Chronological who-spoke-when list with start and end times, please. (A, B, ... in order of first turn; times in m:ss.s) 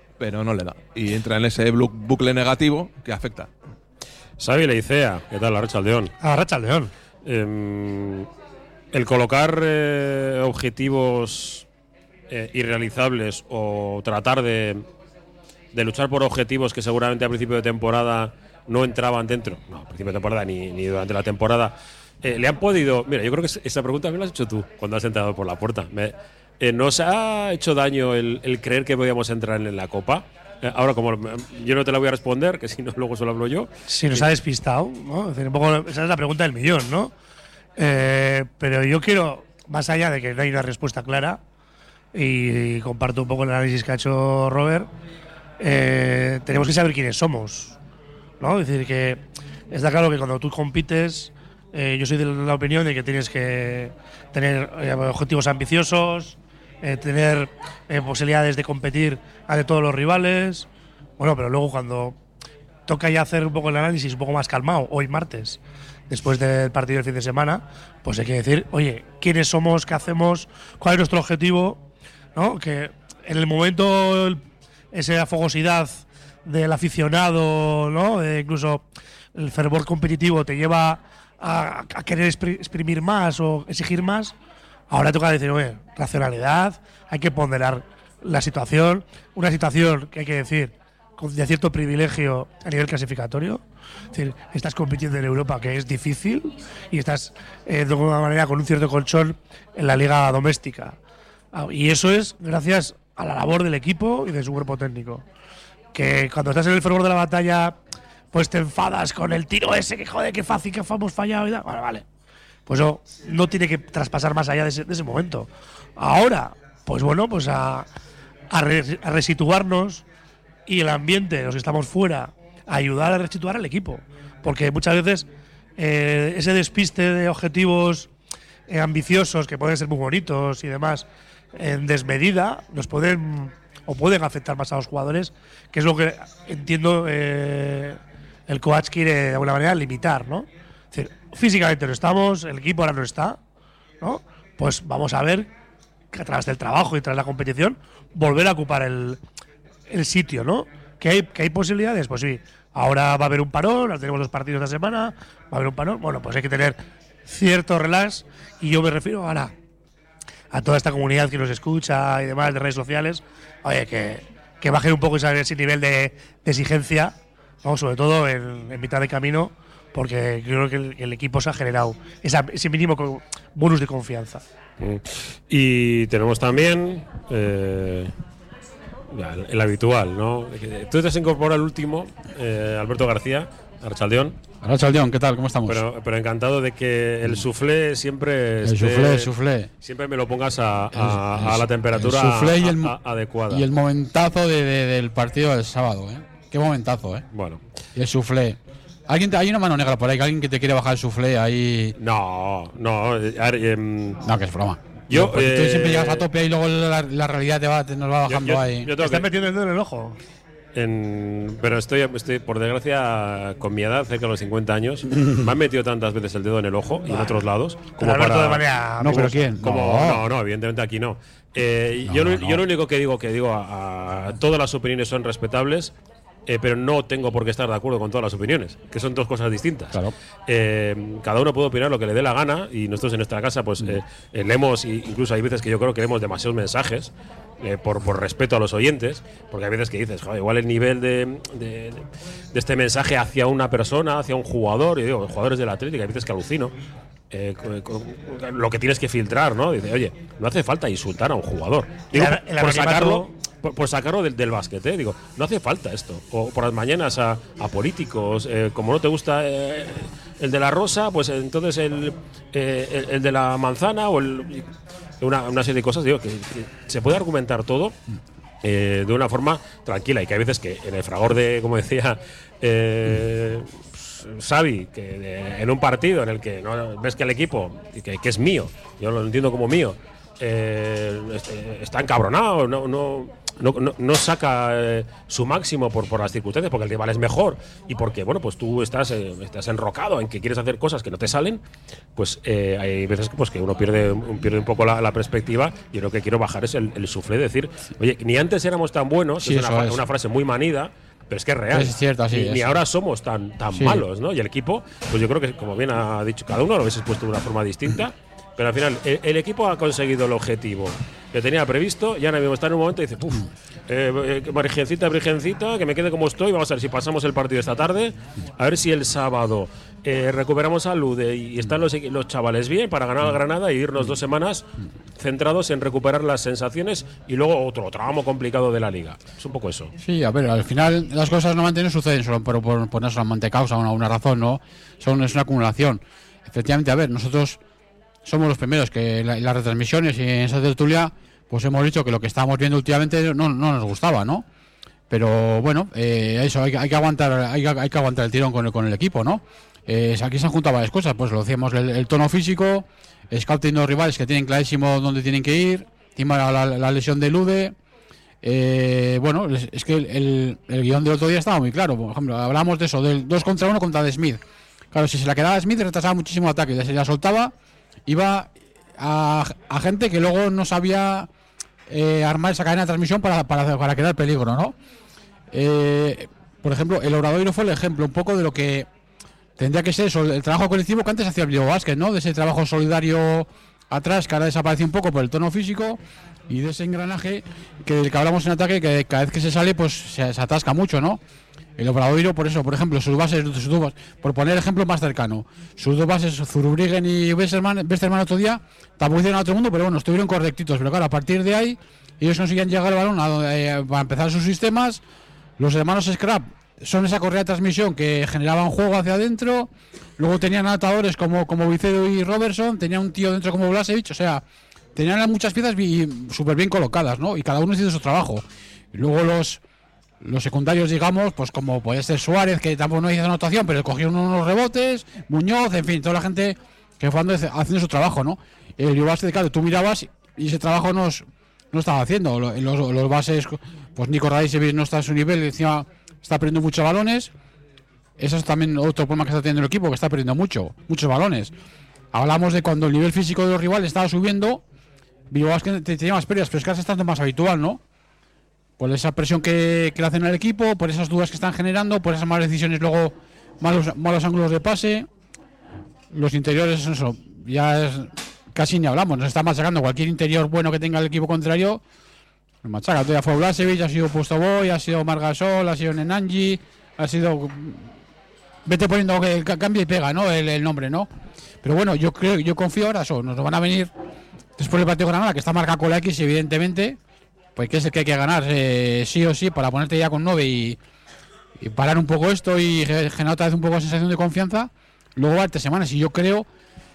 0:00.2-0:03.5 A
0:04.4-0:06.1 B
0:06.2-0:06.9 C
0:07.2-0:08.3 B
0:08.9-0:11.6 B
0:12.3-0:14.8 B
0:15.7-0:34.3 B
0:33.9-0:37.1 C
0:37.8-0:41.4 C
0:42.1-0:44.9 C
0:45.6-0:47.8 C
0:48.4-1:00.7 C
1:01.2-1:02.2 C
1:02.9-1:11.8 C
1:12.3-1:24.3 C
1:24.9-1:33.6 C
1:34.1-1:41.0 C
1:41.5-1:45.2 C
1:45.9-1:47.8 C
1:48.3-1:52.0 C
1:52.7-1:57.9 C
1:58.5-2:00.0 C
2:00.7-2:08.1 C
2:08.7-2:23.4 C
2:24.0-2:25.5 C
2:26.1-2:29.2 C
2:29.9-2:39.5 C
2:40.5-2:54.4 C
2:54.8-2:58.1 B
2:59.1-3:04.4 B
3:04.6-3:05.8 D
3:05.7-3:09.3 B
3:08.6-3:09.7 D
3:09.8-3:13.6 B
3:10.9-3:12.9 D
3:13.5-3:17.2 D
3:17.3-3:17.6 B
3:17.9-3:18.6 D
3:19.1-3:21.9 D
3:22.0-3:24.2 B
3:24.2-3:28.9 D
3:25.1-3:26.2 B
3:28.3-3:29.3 B
3:29.0-3:30.2 C
3:30.7-3:38.7 B
3:37.0-3:37.4 C
3:38.0-3:39.4 C
3:39.0-3:40.2 D
3:39.6-3:45.9 B
3:42.1-3:42.6 D
3:46.5-4:06.7 B
4:07.3-4:24.7 B
4:12.1-4:13.3 C
4:25.2-4:27.9 B
4:28.6-4:51.6 B
4:52.2-5:24.7 B
4:59.4-5:00.0 D
5:01.7-5:02.7 D
5:03.7-5:04.0 D
5:25.2-5:29.9 B
5:30.0-5:37.6 D
5:38.2-5:44.4 D
5:45.1-5:57.7 D
5:58.4-6:04.4 D
6:04.9-6:07.5 D
6:08.1-6:11.3 D
6:11.9-6:14.7 D
6:15.5-6:18.9 D
6:19.6-6:31.2 D
6:31.8-6:45.0 D
6:45.6-6:54.4 D
6:55.0-6:59.6 D
7:00.2-7:17.3 D
7:18.2-7:21.5 D
7:22.1-7:24.6 D
7:25.3-7:27.8 D
7:28.8-7:35.1 D
7:36.1-7:41.8 D
7:42.6-7:47.9 D
7:48.6-7:51.1 D
7:51.6-7:53.9 D
7:54.6-7:57.0 D
7:57.6-8:00.8 D
8:01.6-8:06.4 D